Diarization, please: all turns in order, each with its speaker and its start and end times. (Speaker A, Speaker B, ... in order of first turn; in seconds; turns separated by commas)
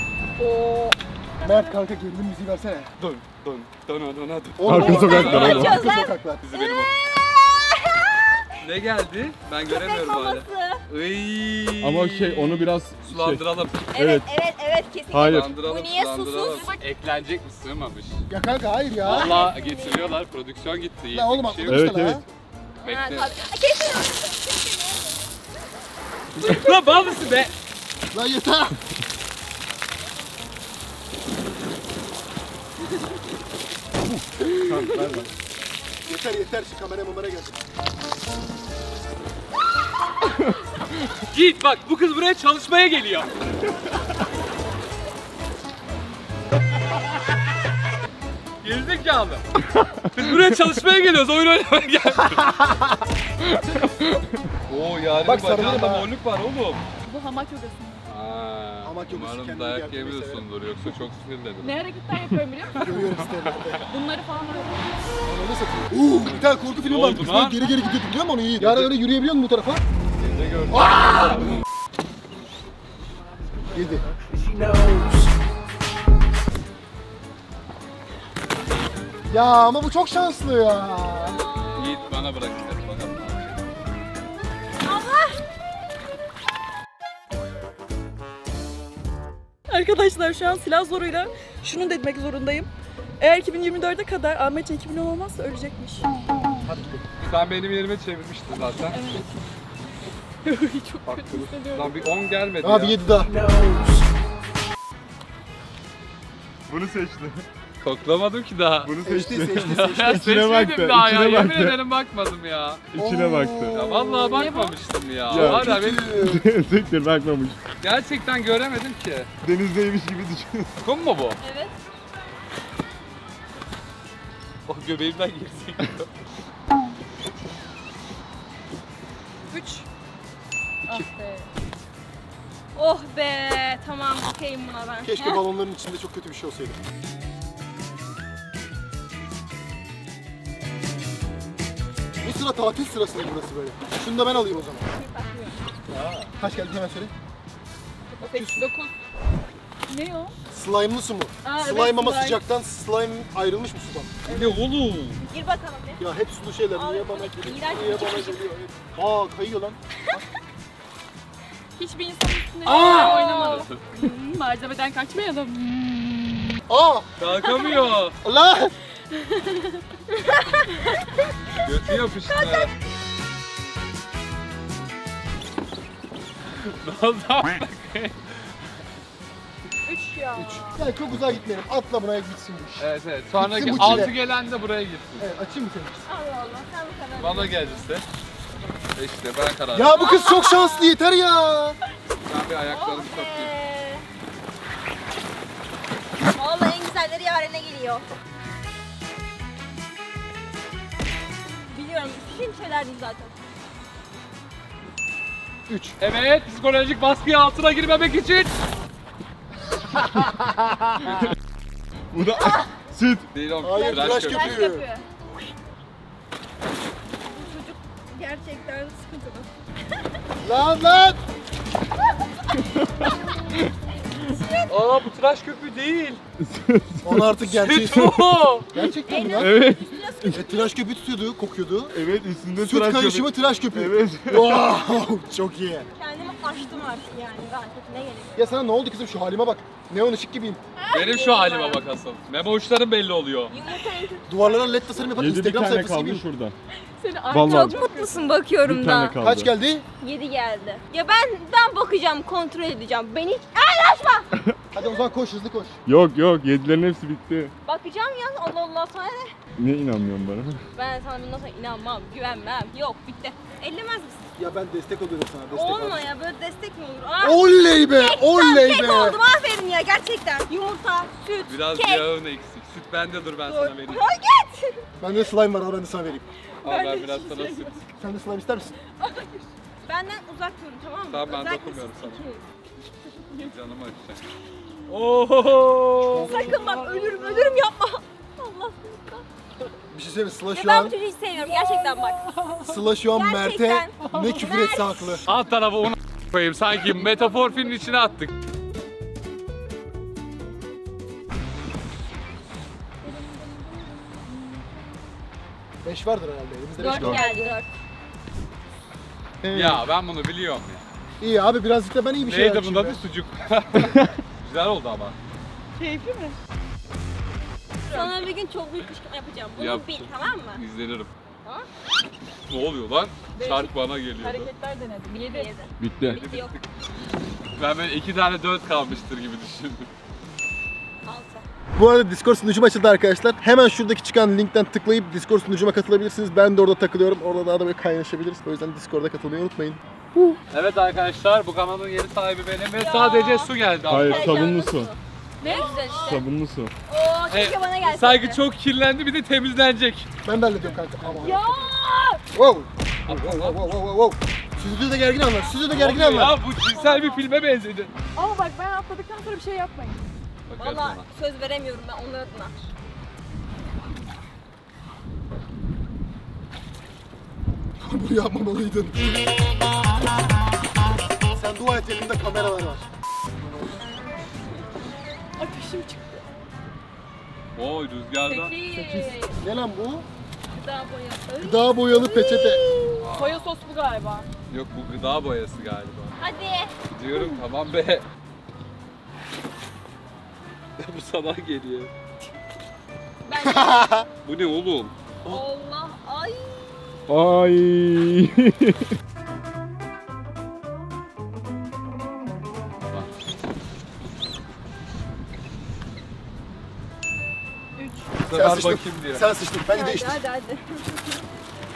Speaker A: 0.4-0.7, Speaker B: 0.5-1.7, Speaker C: 1.4-2.9, Speaker D: 3.0-6.9, Speaker C: 4.6-6.4, Speaker E: 4.6-5.8, Speaker A: 4.9-8.4, Speaker D: 8.6-13.9, Speaker A: 9.7-10.8, Speaker E: 11.8-13.4, Speaker A: 13.9-16.7, Speaker E: 13.9-14.3, Speaker E: 15.1-15.6, Speaker D: 15.2-18.2, Speaker B: 16.5-16.8, Speaker C: 18.3-19.5, Speaker A: 19.1-20.1, Speaker D: 19.1-21.9, Speaker C: 21.1-22.3, Speaker E: 21.7-22.2, Speaker A: 22.8-25.8, Speaker D: 22.8-23.3, Speaker D: 26.4-27.5, Speaker A: 26.4-27.2, Speaker C: 28.1-28.8, Speaker C: 34.1-35.2, Speaker E: 34.5-35.3, Speaker C: 36.1-37.6, Speaker D: 41.3-43.3, Speaker D: 48.6-49.5, Speaker D: 50.1-52.6, Speaker E: 53.4-54.4, Speaker D: 54.7-56.8, Speaker C: 55.2-56.1, Speaker B: 57.0-58.0, Speaker D: 58.1-61.8, Speaker C: 58.8-60.5, Speaker B: 61.6-63.0, Speaker C: 62.7-63.9, Speaker D: 62.8-63.1, Speaker B: 63.9-64.9, Speaker C: 65.2-69.8, Speaker D: 66.2-67.7, Speaker D: 68.6-68.9, Speaker D: 70.2-71.4, Speaker C: 70.8-71.0, Speaker C: 73.7-74.0, Speaker C: 79.3-81.4, Speaker A: 81.2-82.1, Speaker D: 81.7-83.6, Speaker A: 84.8-85.4, Speaker B: 89.7-92.7, Speaker B: 93.2-96.1, Speaker C: 96.6-97.0, Speaker D: 97.2-99.0, Speaker B: 98.9-99.3, Speaker B: 100.4-101.9, Speaker C: 101.1-101.5, Speaker D: 101.7-103.0, Speaker C: 102.6-103.3, Speaker B: 103.5-104.0, Speaker E: 106.7-107.4, Speaker D: 107.8-108.9, Speaker E: 108.8-111.8, Speaker C: 109.0-110.2, Speaker D: 109.7-112.9, Speaker E: 112.9-113.8, Speaker C: 113.0-114.5, Speaker D: 113.7-116.1, Speaker B: 114.3-114.8, Speaker E: 115.3-117.6, Speaker C: 115.3-116.5, Speaker D: 117.8-119.3, Speaker E: 119.4-120.7, Speaker D: 120.8-121.4, Speaker A: 121.4-121.8, Speaker D: 124.7-126.1, Speaker B: 129.5-129.8, Speaker B: 130.9-131.5, Speaker A: 132.8-135.4, Speaker C: 135.0-136.8, Speaker C: 142.2-144.8, Speaker A: 144.9-145.6, Speaker D: 145.9-146.3, Speaker C: 146.4-147.1, Speaker B: 148.2-148.9, Speaker C: 148.3-148.7, Speaker B: 149.9-150.4, Speaker C: 150.5-154.1, Speaker B: 151.5-152.3, Speaker B: 154.2-154.6, Speaker D: 154.3-155.2, Speaker A: 155.2-156.0, Speaker C: 156.0-160.2, Speaker A: 156.7-158.4, Speaker B: 161.8-166.5, Speaker D: 162.7-163.8, Speaker A: 162.7-163.7, Speaker C: 166.7-167.1, Speaker D: 167.2-168.2, Speaker A: 167.6-167.9, Speaker C: 168.2-168.7, Speaker B: 169.4-169.7, Speaker A: 170.1-170.7, Speaker D: 171.6-172.7, Speaker A: 172.3-172.7, Speaker D: 176.5-178.2, Speaker B: 179.9-180.8, Speaker C: 180.3-184.2, Speaker D: 182.8-185.3, Speaker C: 185.2-186.1, Speaker A: 186.1-187.8, Speaker D: 187.2-188.0, Speaker D: 188.9-190.1, Speaker C: 189.7-191.8, Speaker A: 189.9-190.9, Speaker D: 192.3-193.5, Speaker A: 192.7-194.1, Speaker A: 196.3-198.1, Speaker A: 201.7-203.3, Speaker C: 205.7-206.0, Speaker D: 206.0-208.5, Speaker E: 210.2-210.9, Speaker D: 211.0-211.4, Speaker E: 212.1-213.3, Speaker D: 213.3-214.7, Speaker C: 213.6-214.9, Speaker B: 213.8-215.1, Speaker A: 217.3-219.5, Speaker C: 220.4-221.2, Speaker A: 224.2-224.7, Speaker D: 224.7-226.2, Speaker E: 226.4-228.3, Speaker C: 227.0-228.1, Speaker D: 227.5-228.7, Speaker C: 228.7-229.6, Speaker A: 229.1-230.8, Speaker E: 229.2-230.4, Speaker C: 230.3-231.9, Speaker E: 231.9-234.8, Speaker C: 232.6-235.9, Speaker A: 236.0-238.6, Speaker C: 238.4-240.6, Speaker B: 240.8-241.7, Speaker D: 240.9-243.6, Speaker A: 241.0-241.8, Speaker A: 243.5-245.1, Speaker C: 244.3-246.2, Speaker E: 245.2-246.6, Speaker B: 247.0-248.4, Speaker E: 247.3-247.8, Speaker A: 247.4-249.2, Speaker E: 248.6-249.5, Speaker C: 249.2-249.8, Speaker A: 250.0-254.3, Speaker C: 254.7-255.8, Speaker E: 255.9-257.5, Speaker A: 257.6-259.3, Speaker E: 259.6-260.6, Speaker A: 260.8-264.2, Speaker C: 264.4-266.1, Speaker A: 265.5-272.1, Speaker C: 267.2-269.2, Speaker D: 271.4-274.0, Speaker A: 273.4-274.9, Speaker C: 275.0-276.3, Speaker D: 276.6-277.8, Speaker A: 276.6-277.8, Speaker C: 278.0-278.7, Speaker A: 279.0-279.3, Speaker A: 279.9-282.4, Speaker D: 281.1-282.2, Speaker D: 283.4-284.2, Speaker D: 284.9-287.5, Speaker C: 286.1-286.6, Speaker A: 286.1-289.2, Speaker C: 289.9-290.9, Speaker A: 290.5-292.3, Speaker B: 291.4-292.6, Speaker C: 292.6-295.3, Speaker A: 293.1-295.2, Speaker D: 295.3-298.3, Speaker B: 303.3-304.6, Speaker C: 305.8-307.3, Speaker A: 306.8-307.7, Speaker B: 307.1-307.6, Speaker C: 309.4-309.8, Speaker D: 309.5-310.9, Speaker C: 311.2-313.0, Speaker D: 312.2-315.2, Speaker B: 315.8-316.4, Speaker A: 317.9-320.6, Speaker D: 319.6-321.1, Speaker D: 322.5-324.5, Speaker B: 323.3-325.5, Speaker A: 325.1-326.6, Speaker E: 325.8-326.1, Speaker D: 326.0-326.7, Speaker D: 327.6-329.9, Speaker A: 331.1-331.5, Speaker C: 331.8-340.4, Speaker D: 340.5-344.5, Speaker A: 342.8-346.2, Speaker E: 343.9-344.9, Speaker B: 345.4-346.0, Speaker E: 346.0-346.7, Speaker A: 346.9-348.4, Speaker D: 347.3-351.1, Speaker C: 350.2-351.7, Speaker B: 351.2-352.2, Speaker C: 352.3-356.4, Speaker D: 353.1-353.7, Speaker D: 355.7-357.9, Speaker B: 356.6-357.2, Speaker B: 358.1-360.1, Speaker D: 360.5-361.1, Speaker A: 360.6-362.6, Speaker C: 367.8-369.2, Speaker C: 371.3-372.9, Speaker B: 375.4-376.2, Speaker D: 377.6-378.6, Speaker A: 378.2-379.4, Speaker C: 378.7-380.1, Speaker A: 380.5-383.1, Speaker C: 381.4-382.6, Speaker D: 383.0-383.5, Speaker B: 383.1-384.3, Speaker D: 384.5-386.2, Speaker A: 386.2-386.8, Speaker D: 386.9-388.1, Speaker D: 390.8-391.9, Speaker A: 393.2-394.0, Speaker C: 393.4-394.1, Speaker D: 394.2-395.4, Speaker A: 395.3-397.0, Speaker E: 397.1-398.9, Speaker B: 407.8-408.1, Speaker D: 408.2-409.3, Speaker C: 408.3-410.2, Speaker A: 409.7-411.2